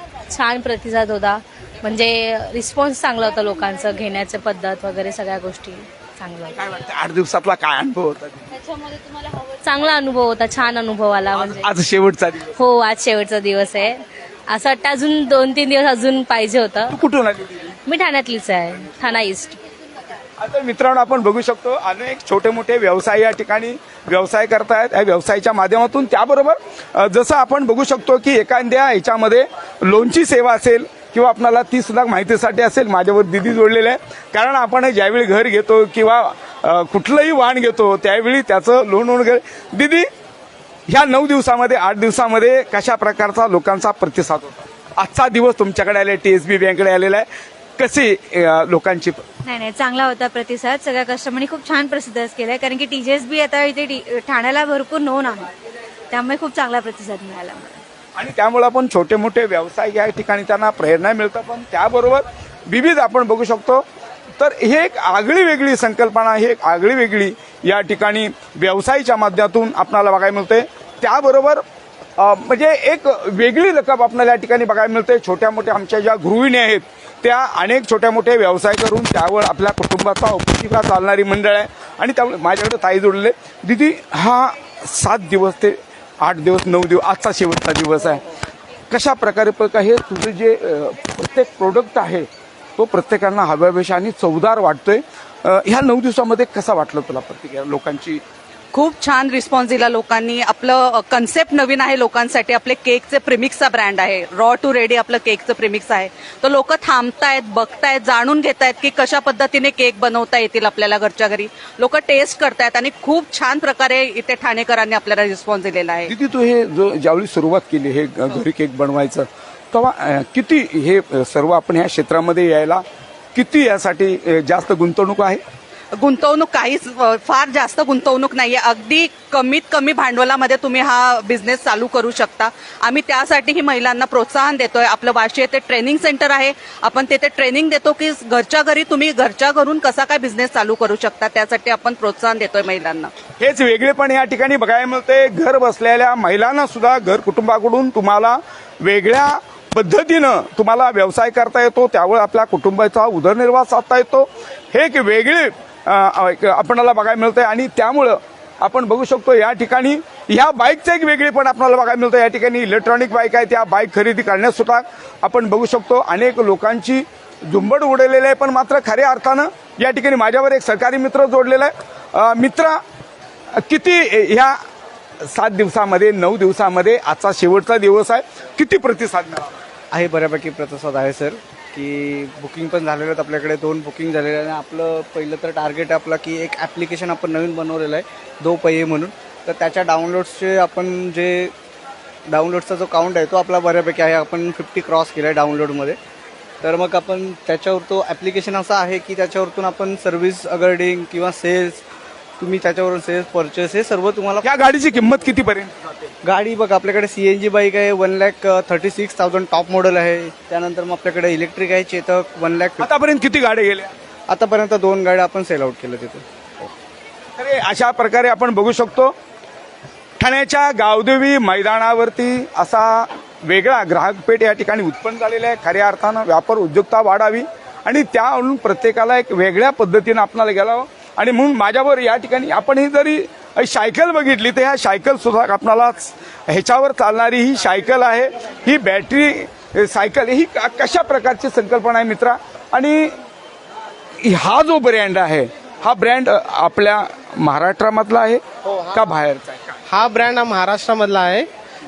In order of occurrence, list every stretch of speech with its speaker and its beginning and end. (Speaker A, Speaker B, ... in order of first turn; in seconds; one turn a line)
Speaker A: 0.3-6.5
Speaker B: 6.5-8.5
Speaker A: 9.6-11.7
Speaker B: 11.3-12.6
Speaker A: 12.6-17.0
Speaker B: 16.9-17.8
Speaker A: 17.9-19.6
Speaker B: 20.4-40.0
Speaker B: 40.9-47.2
Speaker B: 47.8-49.2
Speaker C: 49.4-55.5
Speaker C: 56.1-57.8
Speaker B: 58.2-63.8
Speaker B: 64.4-71.6
Speaker B: 72.2-88.2
Speaker B: 88.9-98.2
Speaker D: 98.7-116.1
Speaker B: 116.1-122.8
Speaker B: 123.3-125.4
Speaker D: 126.0-143.1
Speaker B: 143.4-172.8
Speaker B: 173.6-174.5
Speaker B: 175.3-179.6
Speaker E: 179.9-191.5
Speaker E: 192.3-196.0
Speaker E: 196.6-201.8
Speaker E: 202.4-204.5
Speaker B: 204.4-206.1
Speaker E: 206.2-212.9
Speaker B: 212.8-213.9
Speaker E: 214.3-216.7
Speaker B: 217.4-219.1
Speaker B: 220.2-243.1
Speaker B: 244.2-248.4
Speaker F: 248.6-249.2
Speaker B: 248.9-249.7
Speaker F: 249.9-251.5